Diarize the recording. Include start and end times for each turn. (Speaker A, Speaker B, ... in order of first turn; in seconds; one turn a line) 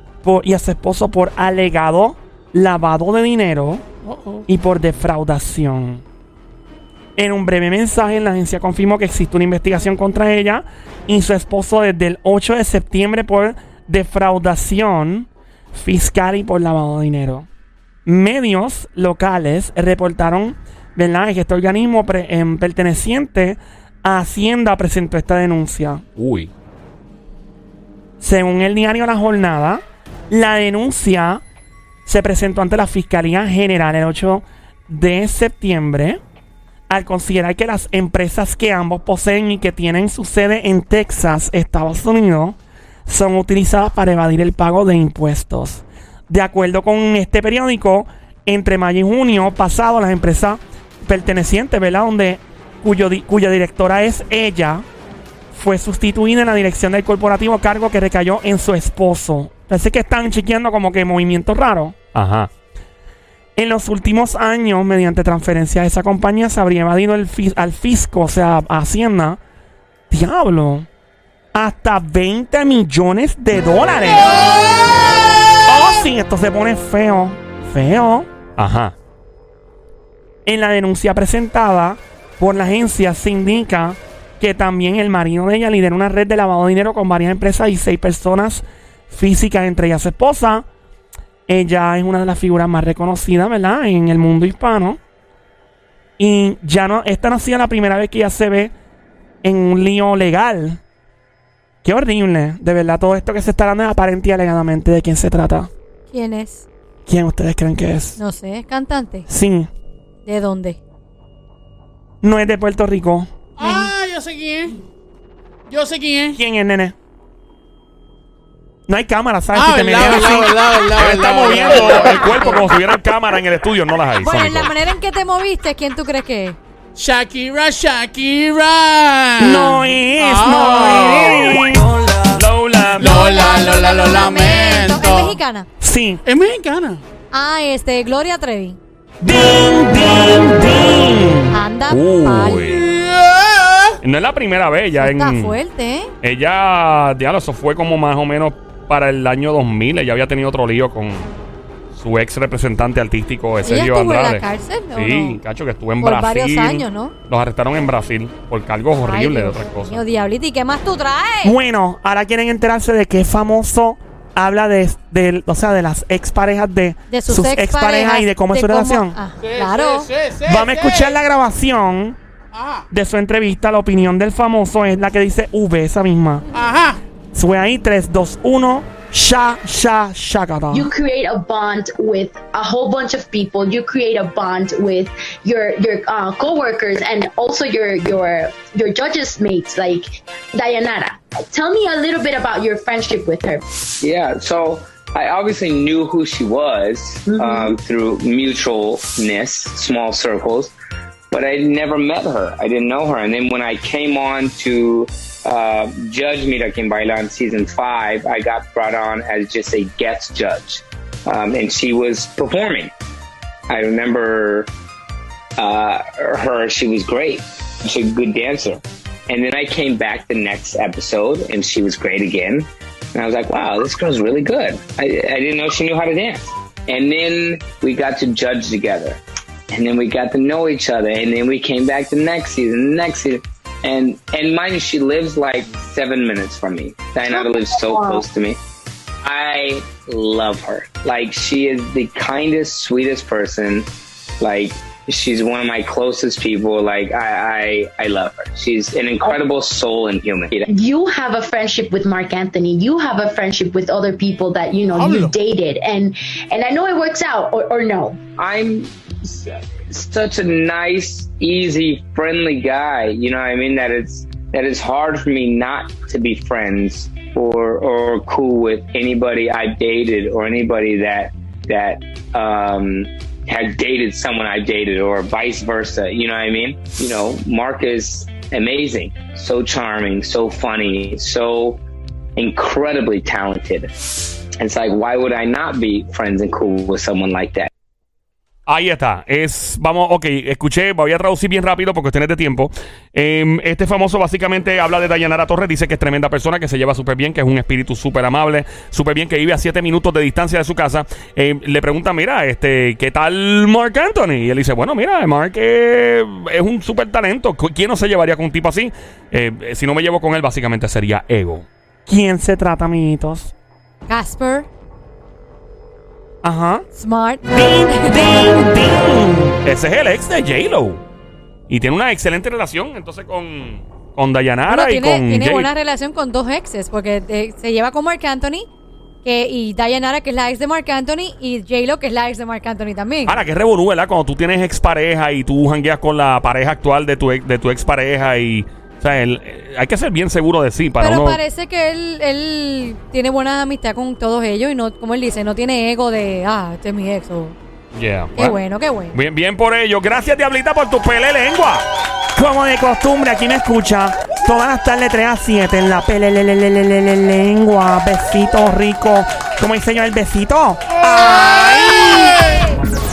Speaker A: 0.2-3.8
Speaker B: 4.0-4.5
Speaker A: 4.5-6.0
Speaker A: 7.2-17.5
Speaker A: 18.1-26.0
Speaker C: 26.2-26.5
Speaker A: 28.2-31.4
Speaker A: 32.1-36.2
Speaker A: 36.9-54.9
Speaker A: 55.5-62.0
Speaker C: 62.1-62.5
Speaker A: 63.6-69.4
Speaker A: 70.1-70.9
Speaker A: 71.5-74.5
Speaker A: 75.7-78.3
Speaker C: 78.6-79.0
Speaker A: 80.5-90.7
Speaker A: 91.5-95.0
Speaker A: 96.2-98.7
Speaker A: 99.4-100.8
Speaker A: 101.8-105.7
Speaker D: 106.1-106.7
Speaker A: 107.1-108.2
Speaker D: 108.2-109.3
Speaker A: 109.3-109.7
Speaker D: 110.3-110.8
Speaker A: 112.2-113.3
Speaker B: 113.6-114.8
Speaker D: 113.6-113.9
Speaker B: 115.7-116.4
Speaker A: 116.3-117.0
Speaker A: 118.9-120.6
Speaker B: 119.5-122.5
Speaker C: 121.0-124.7
Speaker D: 124.2-126.6
Speaker B: 127.0-131.6
Speaker A: 129.4-131.8
Speaker C: 132.3-133.2
Speaker B: 133.0-135.4
Speaker D: 133.0-135.7
Speaker A: 135.8-136.2
Speaker B: 136.3-137.0
Speaker D: 137.3-138.8
Speaker A: 139.2-141.5
Speaker D: 141.5-142.8
Speaker C: 141.9-142.9
Speaker B: 142.8-144.0
Speaker C: 144.0-145.6
Speaker D: 145.0-146.1
Speaker C: 146.2-151.3
Speaker C: 151.9-154.4
Speaker D: 153.7-155.4
Speaker C: 154.9-160.0
Speaker D: 156.0-157.1
Speaker D: 159.0-161.6
Speaker A: 161.4-169.2
Speaker D: 167.1-170.1
Speaker B: 169.4-171.2
Speaker A: 170.5-172.2
Speaker B: 172.5-172.9
Speaker A: 172.9-176.4
Speaker B: 176.5-177.0
Speaker A: 177.3-180.9
Speaker E: 180.7-193.6
Speaker F: 194.0-200.7
Speaker E: 197.3-197.8
Speaker F: 201.3-212.9
Speaker F: 213.7-214.7
Speaker F: 215.6-238.6
Speaker E: 237.3-238.2
Speaker F: 239.2-243.9
Speaker F: 244.4-250.7
Speaker E: 250.7-258.2
Speaker B: 254.9-255.3
Speaker F: 258.4-281.8
Speaker F: 282.4-283.9
Speaker F: 284.6-287.7
Speaker C: 288.7-311.7
Speaker A: 312.1-313.5
Speaker D: 314.1-314.7
Speaker A: 316.4-316.9
Speaker D: 317.0-318.4
Speaker A: 317.5-319.6
Speaker C: 319.6-321.0
Speaker C: 321.7-325.7
Speaker D: 324.7-328.7
Speaker D: 329.2-333.4
Speaker C: 333.3-341.4
Speaker D: 341.0-347.6
Speaker C: 347.9-348.6
Speaker D: 348.4-349.2
Speaker C: 349.1-351.9
Speaker A: 352.4-362.4
Speaker B: 361.0-362.6